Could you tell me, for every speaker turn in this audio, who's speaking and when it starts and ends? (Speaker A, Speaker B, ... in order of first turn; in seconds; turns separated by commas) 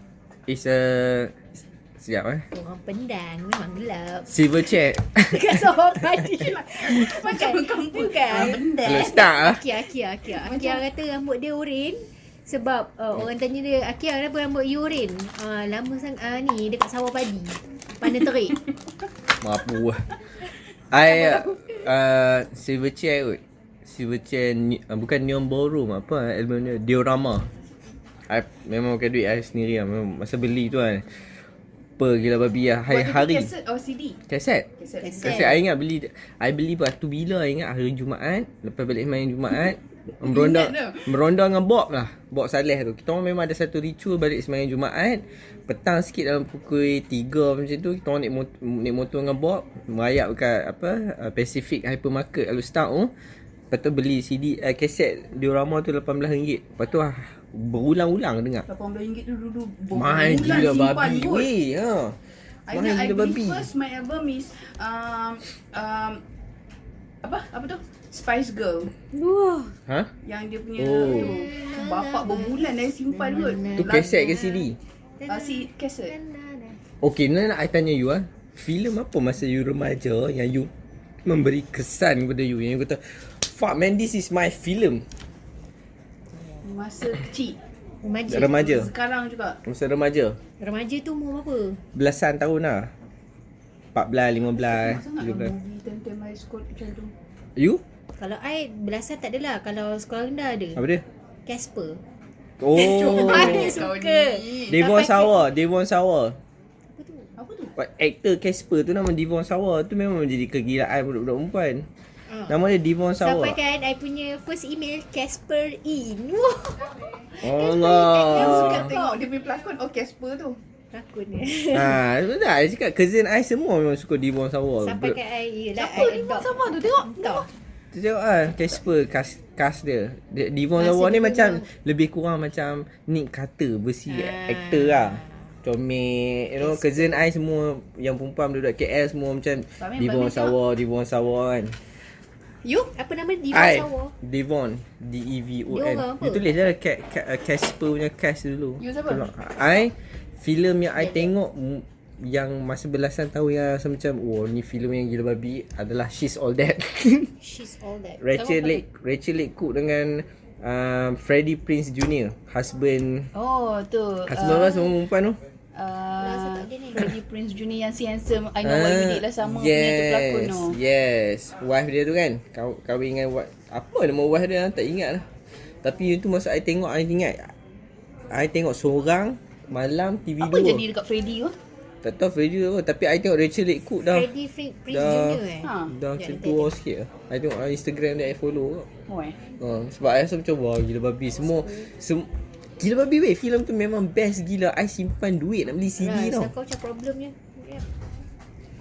Speaker A: 0.5-2.5, Speaker B: 2.5-4.6, Speaker A: 4.3-5.8, Speaker B: 5.1-18.6, Speaker C: 6.7-9.3, Speaker A: 8.8-9.6, Speaker C: 10.3-10.8, Speaker A: 19.4-20.1, Speaker A: 20.9-27.5, Speaker C: 21.1-21.7, Speaker A: 28.3-31.1, Speaker A: 32.0-33.5, Speaker C: 32.9-34.2, Speaker A: 34.3-34.7, Speaker C: 34.8-35.5, Speaker B: 35.0-35.6, Speaker A: 35.2-53.1, Speaker C: 40.2-41.2, Speaker A: 53.7-58.7, Speaker C: 58.7-61.5, Speaker A: 59.9-62.2, Speaker C: 62.7-66.2, Speaker A: 62.7-63.7, Speaker C: 67.2-68.9, Speaker B: 69.1-69.8, Speaker C: 70.2-74.3, Speaker A: 70.8-71.3, Speaker B: 71.0-76.8, Speaker A: 73.8-74.8, Speaker C: 75.3-76.1, Speaker A: 77.0-80.7, Speaker A: 81.2-85.0, Speaker C: 86.6-87.6, Speaker B: 88.0-88.7, Speaker A: 88.3-88.9, Speaker C: 88.3-89.6, Speaker A: 89.6-90.4, Speaker B: 90.6-91.8, Speaker A: 92.0-92.9, Speaker A: 93.9-95.5, Speaker C: 94.6-97.1, Speaker A: 97.6-97.8, Speaker B: 98.2-100.8, Speaker A: 100.8-101.0, Speaker B: 101.5-102.0, Speaker A: 102.6-103.9, Speaker C: 102.7-105.3, Speaker B: 102.9-105.0, Speaker A: 104.7-106.4, Speaker B: 106.9-107.3, Speaker C: 107.4-107.7, Speaker A: 107.8-111.9, Speaker B: 112.3-112.6, Speaker A: 112.5-113.6, Speaker B: 113.2-119.1, Speaker A: 117.4-118.9, Speaker C: 117.9-120.6, Speaker B: 120.9-122.0, Speaker A: 121.7-125.2, Speaker B: 124.8-127.5, Speaker C: 125.8-127.5, Speaker A: 127.9-141.8, Speaker B: 130.8-131.7, Speaker B: 134.1-135.5, Speaker B: 136.6-137.2, Speaker C: 139.8-140.6, Speaker C: 142.6-142.9, Speaker B: 142.9-144.1, Speaker A: 143.5-157.3, Speaker B: 145.7-146.4, Speaker C: 148.8-149.3, Speaker B: 151.0-151.3, Speaker B: 157.4-158.8, Speaker A: 158.2-163.3, Speaker C: 163.3-164.8, Speaker A: 164.3-165.4, Speaker B: 164.4-164.9, Speaker C: 165.8-170.8, Speaker B: 166.2-167.2, Speaker A: 168.6-175.3, Speaker A: 175.8-177.5, Speaker A: 178.3-180.8, Speaker C: 180.4-181.6, Speaker A: 182.0-184.3, Speaker B: 184.1-186.8, Speaker A: 184.9-188.9, Speaker C: 185.6-185.9, Speaker C: 189.1-189.4, Speaker A: 189.6-192.3, Speaker B: 191.6-191.9, Speaker A: 192.8-196.5, Speaker B: 196.0-197.8